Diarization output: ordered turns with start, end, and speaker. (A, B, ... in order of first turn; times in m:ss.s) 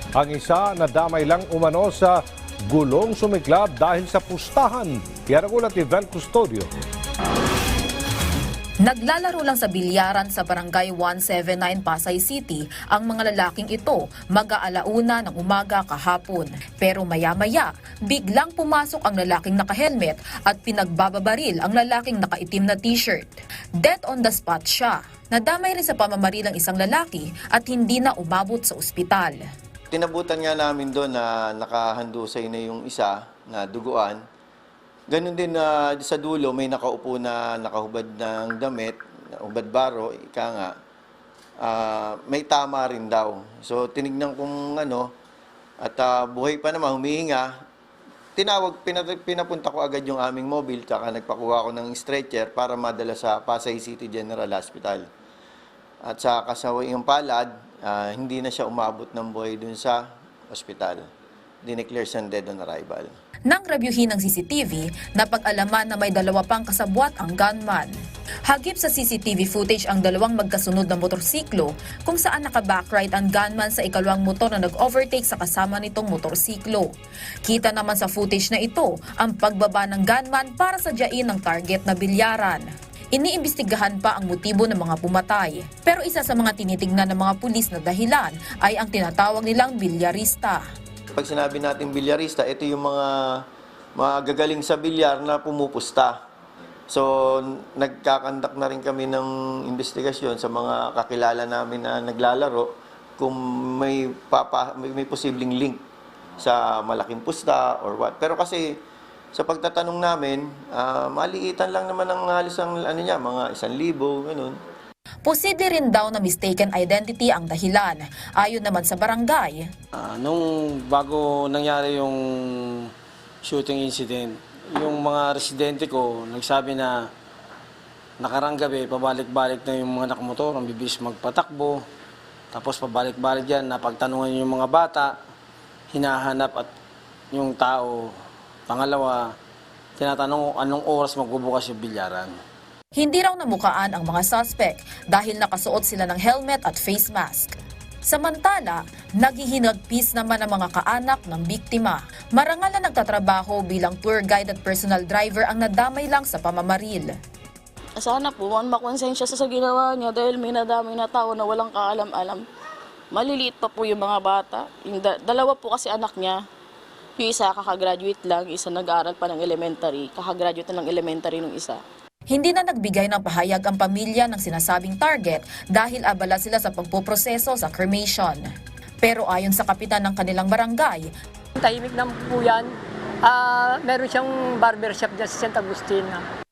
0:00.2-0:02.2 A
0:02.7-0:06.7 A
0:08.8-0:29.4 B
0:29.9-0:34.2 C
0:35.1-0:40.7 C
0:41.6-0:45.1 C
0:45.8-0:47.5 C
0:48.4-0:55.1 C
0:56.0-1:01.0 C
1:01.6-1:03.1 C
1:03.5-1:07.9 B
1:08.5-1:16.9 B
1:17.4-1:30.6 B
1:31.1-1:33.4 C
1:34.0-1:36.2 C
1:36.9-1:45.8 C
1:46.4-1:48.8 C
1:49.3-1:54.6 C
1:55.2-1:59.7 B
2:00.0-2:02.2 D
2:03.4-2:07.0 D
2:08.2-2:11.8 D
2:12.5-2:15.1 D
2:15.9-2:16.7 D
2:17.3-2:18.1 D
2:18.7-2:19.2 D
2:20.0-2:22.3 D
2:22.9-2:37.1 B
2:38.0-2:42.4 E
2:43.1-2:46.4 E
2:47.2-2:51.8 E
2:52.3-2:58.4 B
2:59.0-3:01.1 B
3:01.6-3:06.2 F